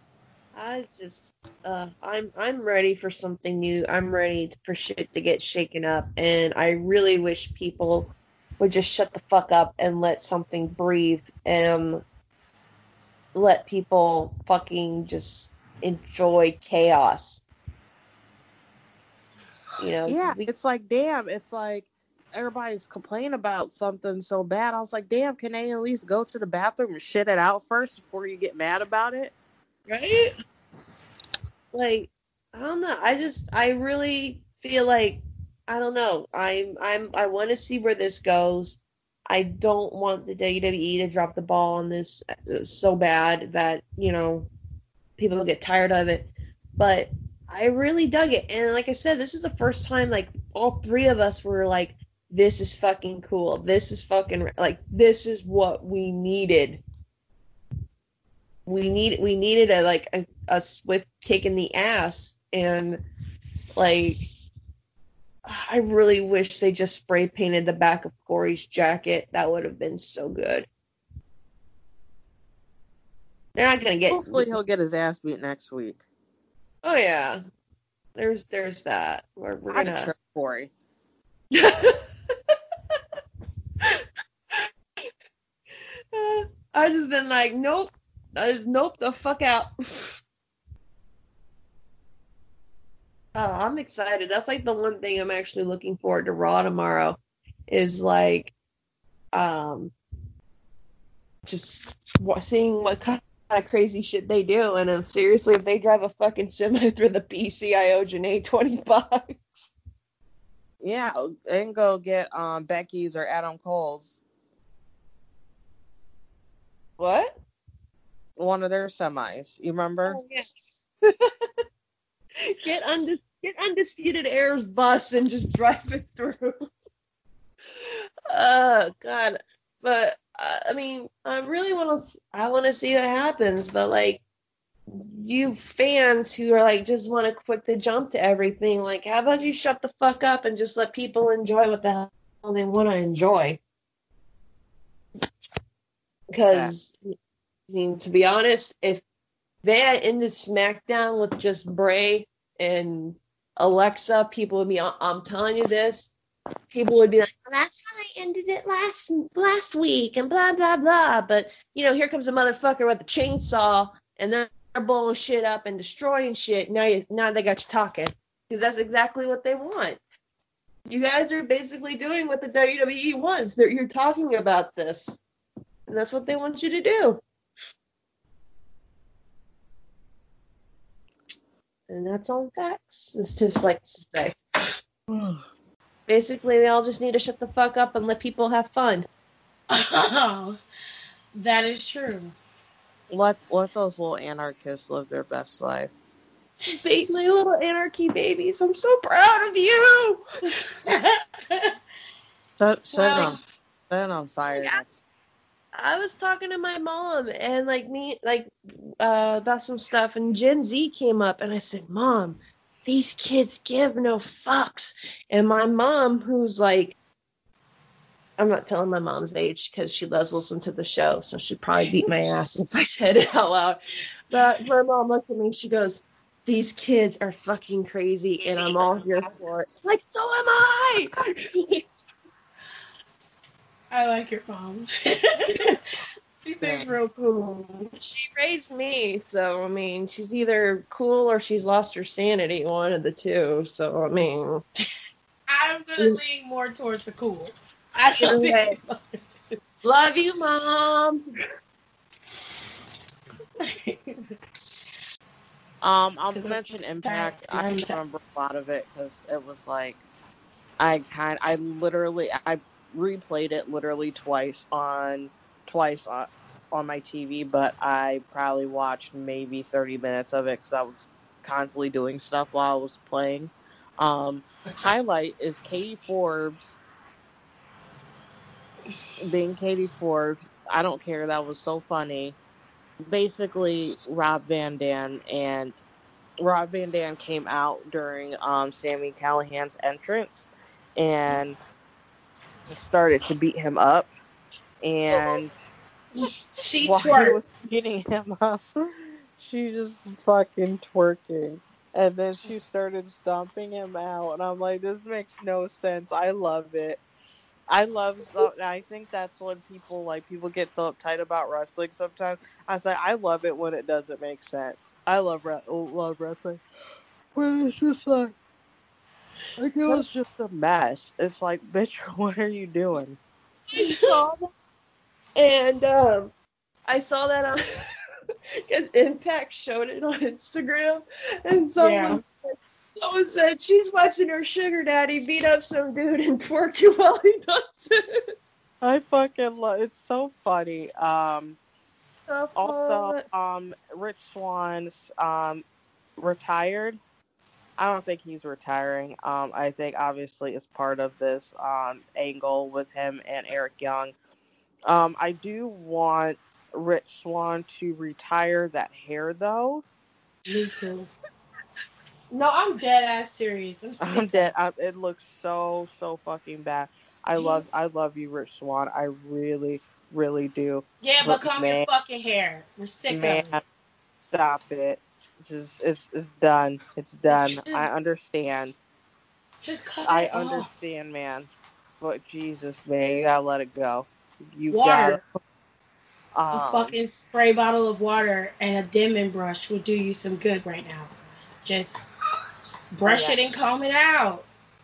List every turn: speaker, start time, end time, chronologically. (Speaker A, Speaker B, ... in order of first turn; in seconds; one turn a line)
Speaker A: 0.5-12.0
Speaker A: 13.3-17.4
Speaker A: 19.8-20.5
Speaker B: 20.1-29.3
Speaker A: 29.9-30.3
Speaker A: 31.7-44.5
Speaker A: 45.2-56.8
Speaker A: 58.7-63.0
Speaker A: 63.8-64.3
Speaker A: 65.5-70.7
Speaker A: 73.6-74.5
Speaker B: 74.1-76.0
Speaker A: 76.8-77.4
Speaker A: 78.2-80.1
Speaker B: 79.7-80.7
Speaker A: 81.5-83.0
Speaker A: 83.8-84.7
Speaker A: 86.1-90.2
Speaker A: 93.3-97.2
Speaker A: 97.7-98.5
Speaker A: 99.3-99.9
Speaker A: 101.5-109.7
Speaker B: 110.8-114.2
Speaker A: 117.0-117.4
Speaker B: 118.4-120.2
Speaker A: 120.0-120.5
Speaker A: 122.6-126.5
Speaker A: 127.8-134.2
Speaker A: 134.9-143.6
Speaker A: 146.3-147.0
Speaker A: 147.7-149.0
Speaker A: 149.6-156.1
Speaker A: 156.7-170.0
Speaker A: 170.9-175.2
Speaker A: 175.9-177.2
Speaker A: 181.9-184.4
Speaker B: 185.1-185.4
Speaker A: 186.1-189.1
Speaker C: 189.7-190.6
Speaker C: 191.3-192.3
Speaker B: 193.1-195.9
Speaker A: 196.8-200.2
Speaker C: 200.6-201.7
Speaker B: 202.6-203.4
Speaker C: 202.9-203.4
Speaker B: 203.9-205.0
Speaker A: 204.5-204.8
Speaker A: 205.8-217.0
Speaker A: 218.4-223.8
Speaker A: 224.3-231.1
Speaker C: 233.9-235.8
Speaker C: 236.4-237.2
Speaker B: 236.6-236.9
Speaker A: 237.2-244.6
Speaker C: 245.5-249.6
Speaker A: 248.2-248.8
Speaker A: 249.8-251.2
Speaker C: 253.6-254.3
Speaker B: 255.8-260.0
Speaker C: 256.3-258.0
Speaker B: 260.8-276.8
Speaker B: 279.2-282.4
Speaker B: 283.1-285.8
Speaker B: 286.4-291.6
Speaker B: 292.7-294.1
Speaker B: 294.8-295.6
Speaker C: 296.2-297.4
Speaker B: 296.8-298.6
Speaker B: 299.4-307.0
Speaker B: 307.7-316.6
Speaker B: 317.4-318.3
Speaker A: 319.6-320.1
Speaker B: 319.8-323.2
Speaker C: 323.7-324.2
Speaker A: 323.7-324.5
Speaker A: 325.4-326.3
Speaker A: 326.9-327.6
Speaker A: 328.7-338.0
Speaker C: 331.8-332.2
Speaker B: 338.8-341.6
Speaker A: 342.3-343.2
Speaker B: 342.6-345.6
Speaker B: 346.2-347.0
Speaker B: 347.8-354.1
Speaker B: 354.9-359.8
Speaker C: 360.5-361.1
Speaker C: 362.3-364.5
Speaker B: 364.0-371.9
Speaker C: 367.4-367.6
Speaker C: 371.0-373.5
Speaker B: 373.1-373.6
Speaker B: 374.3-378.8
Speaker C: 377.3-377.9
Speaker C: 379.6-380.7
Speaker B: 380.1-385.2
Speaker C: 384.7-385.2
Speaker B: 386.3-386.9
Speaker C: 386.5-391.1
Speaker C: 391.6-392.1
Speaker C: 392.9-394.5
Speaker B: 393.1-393.4